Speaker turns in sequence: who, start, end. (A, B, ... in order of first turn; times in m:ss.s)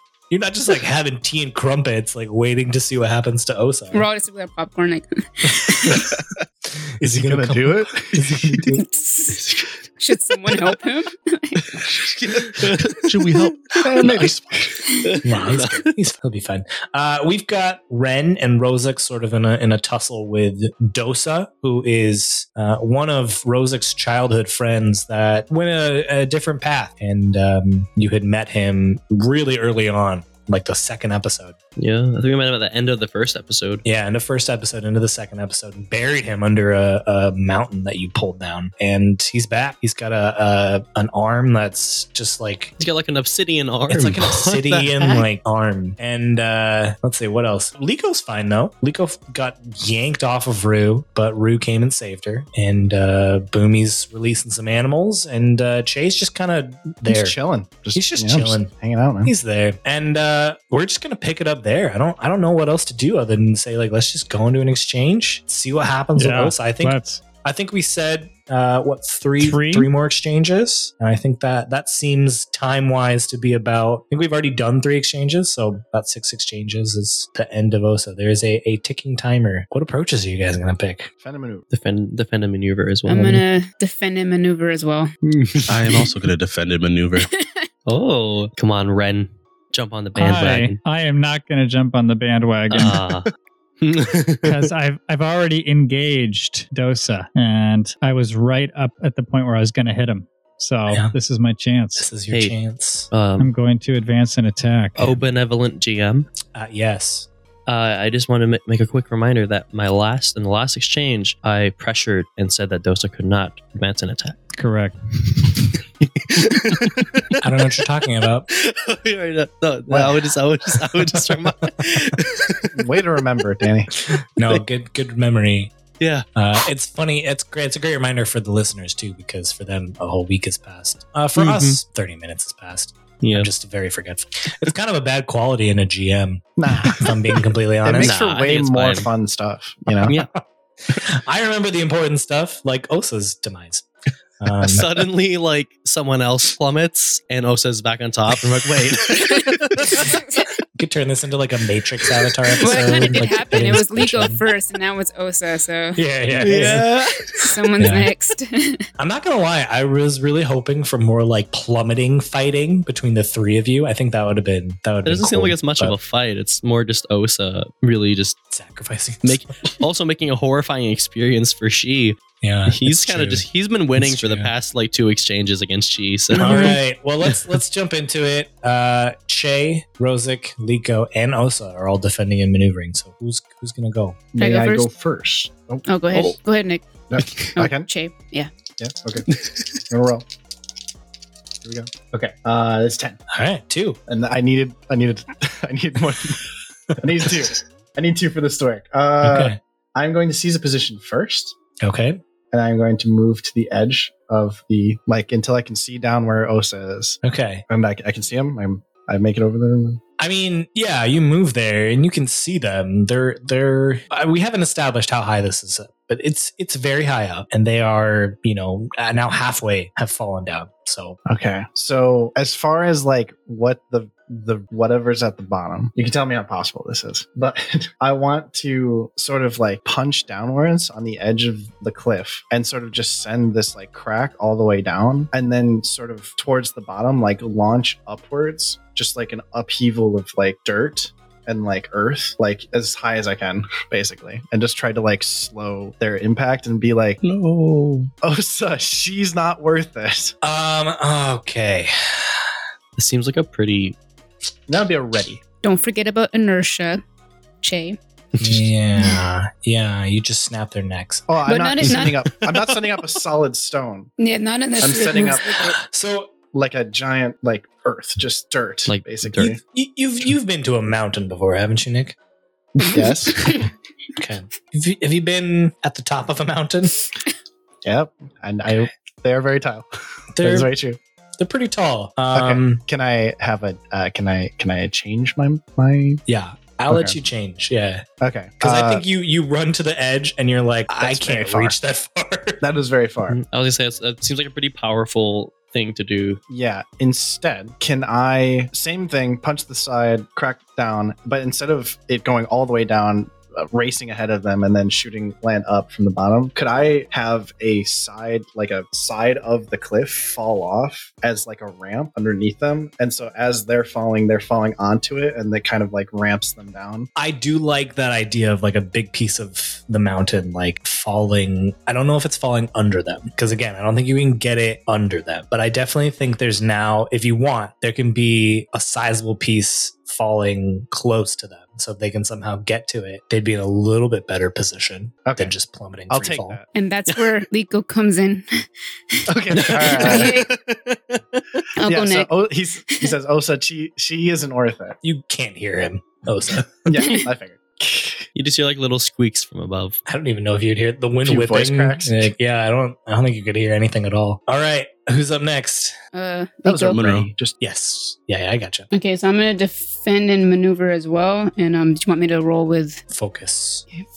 0:00.3-0:04.0 A
0:03.9-0:06.0 B
0:07.0-0:08.8 A
0:07.0-0:08.7 C
0:08.8-0:09.4 B
0:10.0-0:11.6 B
0:11.9-0:14.8 D
0:12.5-0:13.4 E
0:13.8-0:14.6 C
0:15.0-0:15.9 E
0:15.2-0:31.6 A
0:31.8-0:33.8 E
0:33.8-0:42.7 A
0:42.8-0:45.2 E
0:43.9-0:57.4 A
0:57.1-0:59.3 C
0:57.9-0:58.7 A
0:59.2-1:21.1 A
1:06.2-1:07.2 F
1:09.4-1:09.9 F
1:21.2-1:21.6 C
1:21.7-1:23.4 E
1:23.1-1:25.1 B
1:25.2-1:26.0 E
1:25.7-1:27.3 D
1:27.2-1:27.6 B
1:27.9-1:30.8 E
1:30.2-1:33.0 F
1:32.7-1:33.3 E
1:33.8-1:34.7 E
1:34.4-1:42.1 F
1:42.0-1:43.1 A
1:42.3-1:42.6 E
1:43.1-1:43.5 E
1:43.4-1:45.2 F
1:45.0-1:46.3 E
1:46.5-1:47.3 A
1:47.6-1:54.4 E
1:54.6-1:55.0 F
1:56.0-1:57.4 E
1:57.4-1:58.4 A
1:58.5-2:02.9 E
1:59.9-2:00.2 C
2:02.7-2:03.9 C
2:04.4-2:05.7 A
2:06.0-2:06.2 E
2:06.3-2:18.2 A
2:11.4-2:11.8 E
2:13.2-2:13.5 E
2:16.6-2:20.2 C
2:18.0-2:19.1 E
2:20.0-2:20.3 E
2:20.9-2:23.9 A
2:24.4-2:25.0 A
2:24.6-2:30.2 E
2:30.0-2:30.4 B
2:30.8-2:34.4 A
2:32.6-2:36.8 B
2:36.0-2:36.9 A
2:36.3-2:37.5 E
2:37.3-2:38.8 B
2:37.8-2:38.1 A
2:39.0-2:46.0 A
2:45.0-2:48.4 E
2:48.5-2:49.5 A
2:49.2-2:56.8 E
2:52.4-2:54.5 A
2:56.3-3:04.2 A
3:04.3-3:05.9 C
3:04.4-3:04.9 B
3:05.8-3:07.0 B
3:07.1-3:07.9 C
3:07.6-3:08.5 B
3:08.8-3:09.3 C
3:09.9-3:10.2 C
3:11.6-3:13.2 C
3:13.3-3:14.0 A
3:14.1-3:21.6 C
3:19.2-3:19.6 A
3:21.8-3:22.2 A
3:22.5-3:30.0 C
3:27.2-3:27.6 A
3:30.2-3:41.2 A
3:41.3-4:07.2 C
4:07.2-4:08.1 D
4:08.2-4:10.3 C
4:10.4-4:12.4 A
4:13.0-4:14.0 E
4:14.7-4:15.4 C
4:15.6-4:17.0 B
4:17.6-4:18.0 B
4:18.4-4:18.7 E
4:18.4-4:21.3 A
4:21.3-4:24.1 C
4:21.4-4:22.3 B
4:21.9-4:22.7 E
4:24.2-4:25.7 B
4:24.8-4:25.8 C
4:25.8-4:26.3 A
4:26.5-4:29.6 C
4:28.9-4:29.6 E
4:29.7-4:32.2 A
4:32.9-4:33.6 C
4:34.2-4:37.0 A
4:37.8-4:39.8 C
4:40.4-4:40.7 A
4:40.4-4:41.0 C
4:41.4-4:42.8 A
4:42.3-4:46.2 C
4:46.3-4:48.0 A
4:46.9-4:47.2 C
4:48.2-4:49.0 C
4:48.6-4:52.6 A
4:50.9-4:51.7 C
4:52.6-4:53.4 C
4:53.3-4:56.4 E
4:56.5-5:17.1 C
5:17.2-5:36.6 A
5:35.2-5:35.5 C
5:36.1-5:36.7 C
5:36.7-5:40.5 B
5:39.3-5:40.4 C
5:39.5-5:41.6 E
5:41.8-5:42.3 B
5:41.8-5:45.0 C
5:42.9-5:43.2 B
5:45.0-5:46.9 A
5:46.8-5:48.3 C
5:47.0-5:47.3 B
5:48.3-5:50.0 E
5:50.1-5:55.9 A
5:51.2-5:52.3 C
5:56.1-5:57.0 B
5:56.6-5:57.6 C
5:56.9-5:57.3 D
5:57.6-5:58.9 A
5:58.9-6:03.0 B
6:03.1-6:03.8 A